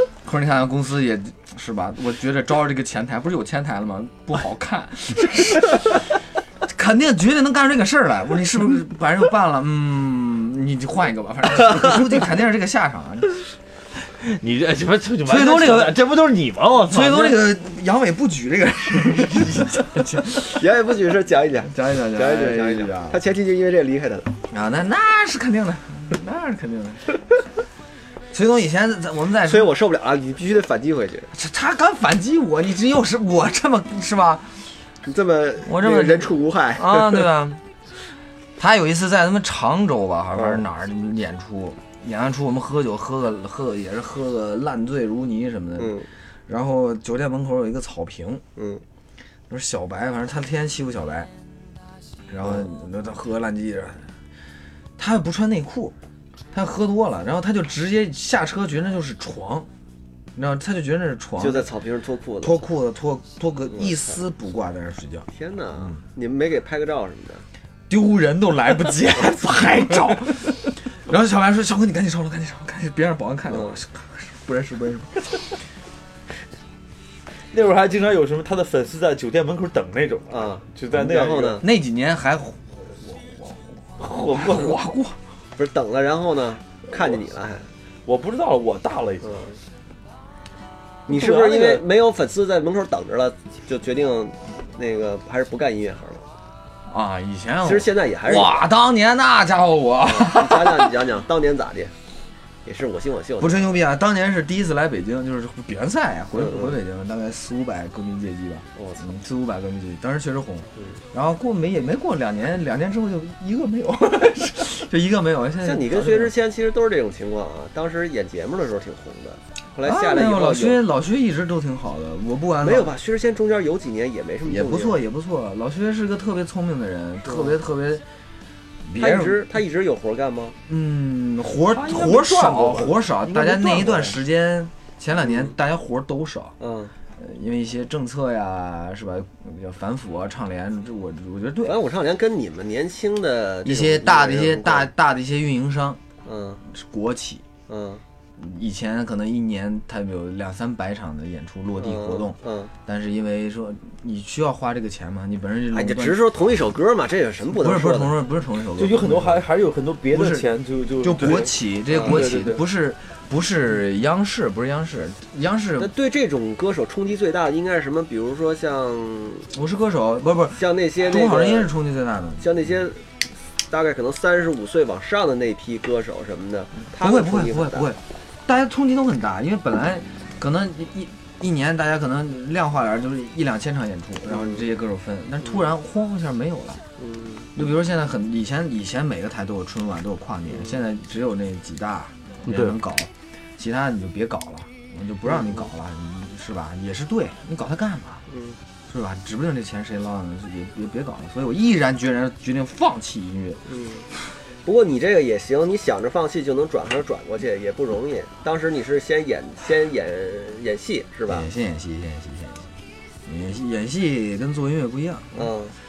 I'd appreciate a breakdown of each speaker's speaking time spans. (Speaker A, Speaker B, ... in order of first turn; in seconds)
Speaker A: 0.2-6.1, 6.6-13.4, 15.3-16.1, 16.9-20.6, 21.7-23.2, 24.5-27.2, 28.3-29.7, 31.3-34.6, 35.6-37.6, 38.6-48.4, 49.5-51.3, 52.3-54.1, 55.0-56.0, 56.5-59.7, 60.4-61.7, 62.4-65.3, 67.9-75.5, 81.6-85.2, 96.9-101.0, 103.4-116.3, 119.8-122.9, 124.5-128.1, 128.8-129.5, 130.7-136.6, 137.2-141.8, 143.7-146.0, 146.7-147.4, 148.4-156.3, 157.6-159.5, 160.1-160.5, 161.0-165.9, 169.5-172.5, 176.9-186.8, 187.6-198.2, 198.9-203.7, 211.3-212.7, 213.3-215.5
Speaker B: 14.2-17.5, 77.5-81.6, 84.0-84.8, 88.1-89.3, 91.1-91.8, 131.7-134.2, 158.8-162.7, 192.5-192.8
Speaker C: 20.5-24.3, 29.4-31.3, 35.0-37.3, 40.4-40.6, 45.8-46.1, 48.6-48.8, 61.4-62.6, 63.7-64.0, 65.3-67.4, 73.5-73.8, 80.3-81.7, 85.6-87.7, 89.2-89.6, 91.1-96.3, 97.6-98.7, 100.0-101.9, 102.7-103.8, 106.3-106.8, 108.8-109.0, 115.6-120.8, 122.6-125.0, 127.2-127.6, 129.0-130.6, 136.6-136.9, 141.6-144.9, 146.2-146.6, 147.7-148.0, 151.8-152.7, 155.7-158.2, 161.9-162.2, 165.8-169.5, 170.5-171.7, 172.4-173.0, 173.7-177.9, 184.3-184.7, 187.0-187.5, 190.5-190.8, 195.3-195.7, 198.3-198.6, 203.7-204.1, 204.7-211.5, 215.3-215.8